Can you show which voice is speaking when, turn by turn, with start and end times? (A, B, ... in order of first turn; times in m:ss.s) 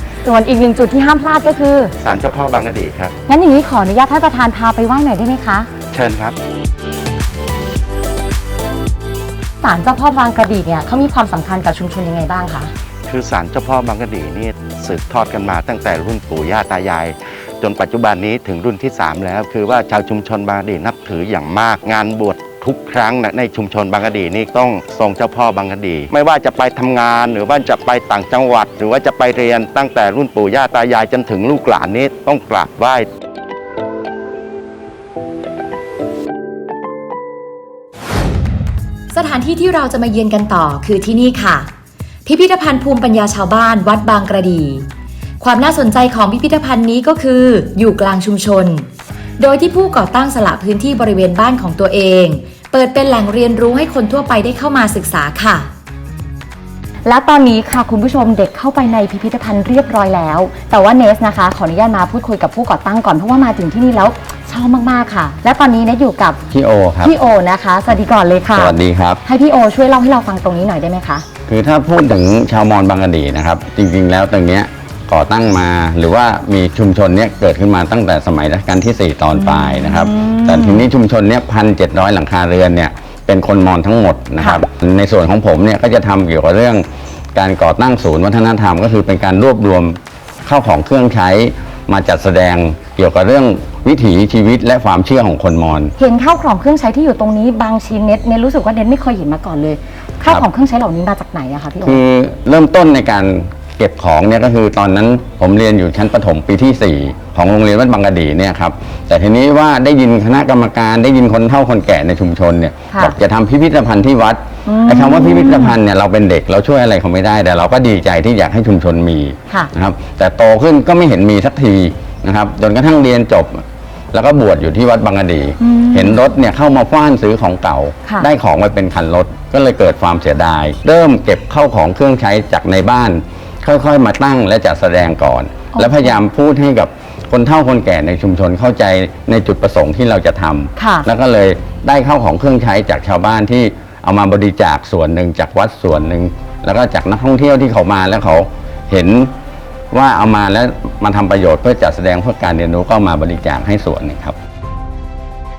0:00.2-0:01.9 A
0:02.0-0:03.1 B
0:03.3-0:05.7 A
0:05.9-0:06.4 B
0:09.6-0:12.7 A
0:13.1-0:33.1 B
0:39.1-0:41.7 C
0:42.2-0:44.8 C
0:45.4-0:48.9 C
0:49.4-0:55.7 C
0:57.0-1:06.4 A
1:06.5-1:07.2 D
1:07.0-1:11.2 A
1:08.5-1:09.2 D
1:11.5-1:35.9 D
1:19.3-1:20.9 A
1:24.4-1:24.6 A
1:36.0-1:42.0 A
1:41.8-2:29.3 D
1:52.9-1:53.2 A
1:54.6-1:55.8 A
2:05.6-2:06.2 A
2:15.7-2:16.1 A
2:20.8-2:21.0 A
2:29.9-2:34.4 D